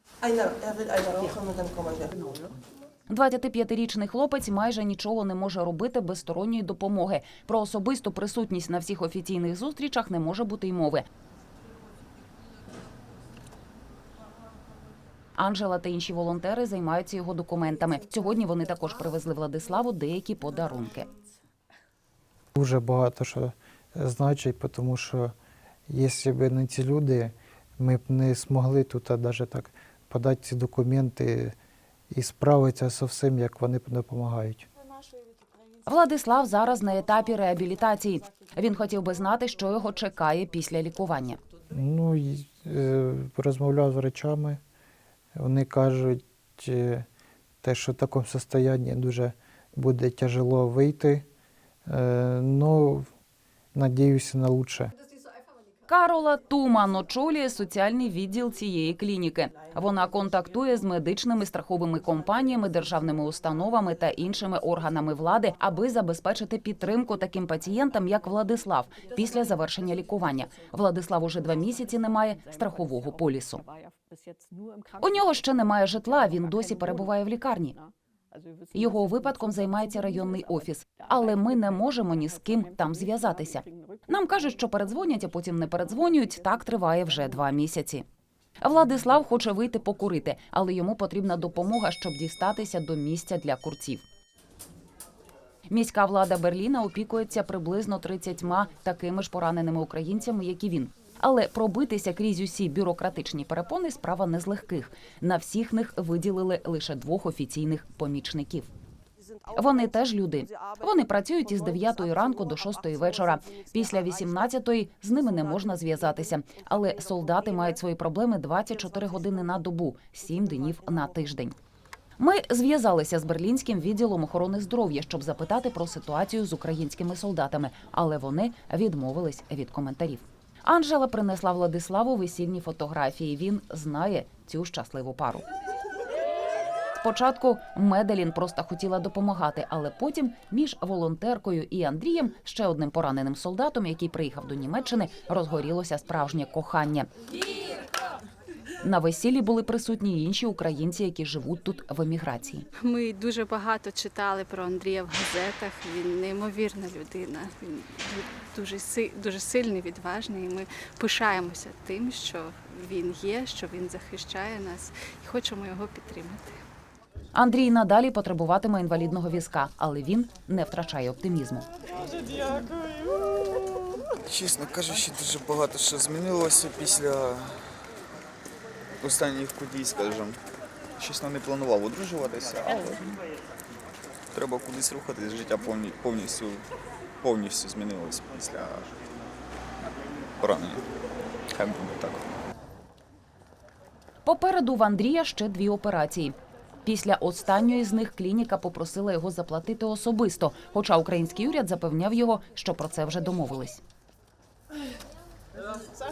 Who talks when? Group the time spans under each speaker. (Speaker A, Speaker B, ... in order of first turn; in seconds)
Speaker A: 0.2-2.6
Speaker B: 3.1-11.1, 15.4-21.1, 35.9-41.4, 55.9-73.6, 75.0-77.8, 78.7-88.0, 88.6-94.0, 95.7-108.7, 109.5-121.5, 122.2-135.4, 136.9-147.1, 148.8-152.7, 167.3-171.7, 194.2-203.8
Speaker C: 22.5-25.3, 25.9-31.6, 32.1-34.6, 41.7-44.6, 45.3-47.0, 47.6-51.2, 51.9-53.1, 53.7-54.9
Speaker D: 152.8-166.6
Speaker E: 174.3-177.6, 179.0-180.4, 181.0-183.2, 184.3-186.6, 187.2-188.9, 190.4-190.9, 191.5-192.3